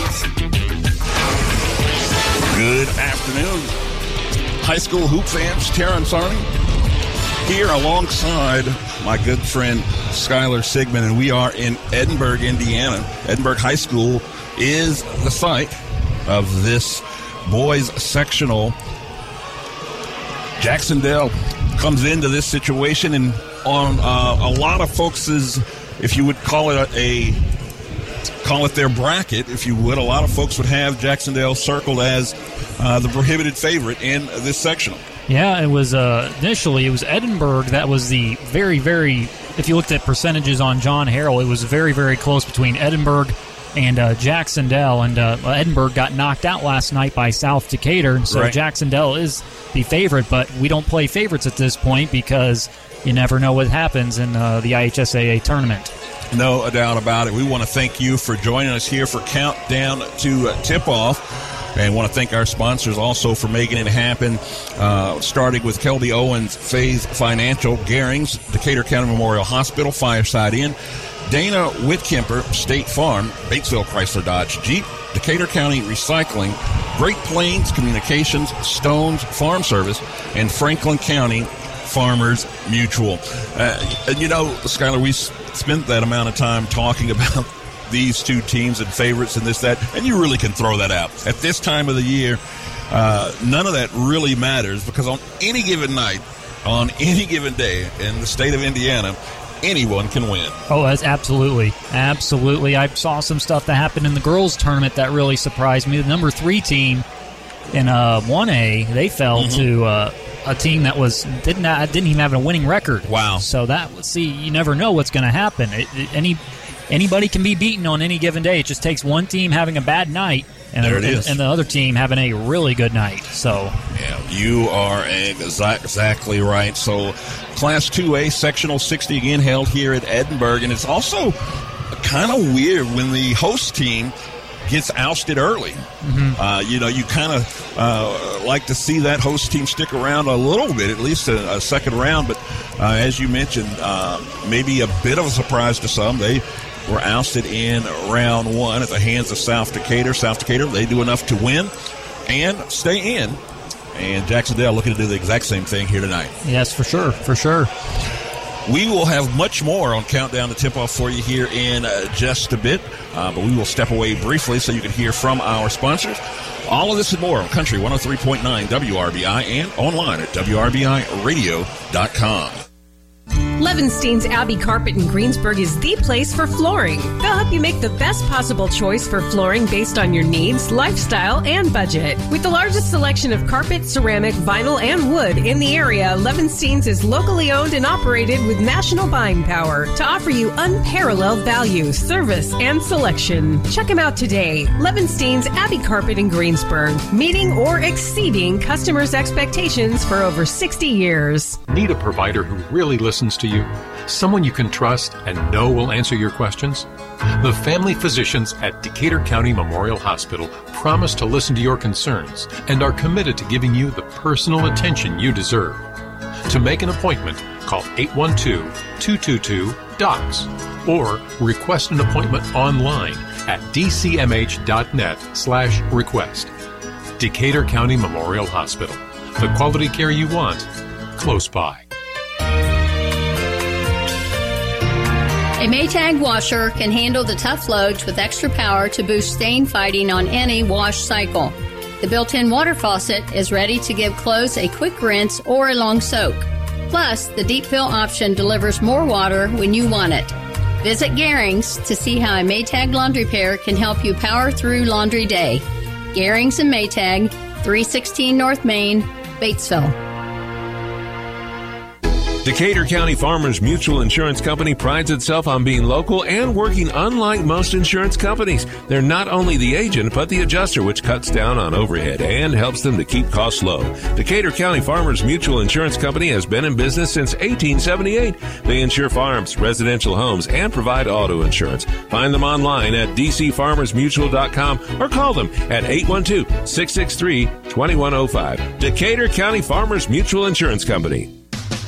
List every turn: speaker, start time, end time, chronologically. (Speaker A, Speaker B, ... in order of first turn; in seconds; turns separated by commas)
Speaker A: 2.5-3.7, Speaker A: 4.6-6.5, Speaker A: 7.4-18.8, Speaker A: 20.6-27.4, Speaker A: 28.4-35.0, Speaker B: 35.3-55.9, Speaker A: 48.3-48.6, Speaker A: 56.3-70.8, Speaker A: 71.3-100.5, Speaker B: 100.7-107.0, Speaker B: 107.7-123.8, Speaker A: 109.3-109.7, Speaker A: 113.0-113.4, Speaker A: 120.8-121.4, Speaker A: 123.9-131.4, Speaker A: 131.9-134.1, Speaker A: 134.7-135.8, Speaker B: 136.0-136.4, Speaker A: 136.3-151.7, Speaker A: 152.2-153.4, Speaker A: 153.9-156.3, Speaker B: 156.4-157.7, Speaker A: 158.7-172.6, Speaker C: 173.6-201.6, Speaker D: 201.7-206.9, Speaker D: 207.4-215.8, Speaker D: 216.4-226.5, Speaker D: 227.2-231.9, Speaker E: 235.6-259.9, Speaker F: 262.4-291.3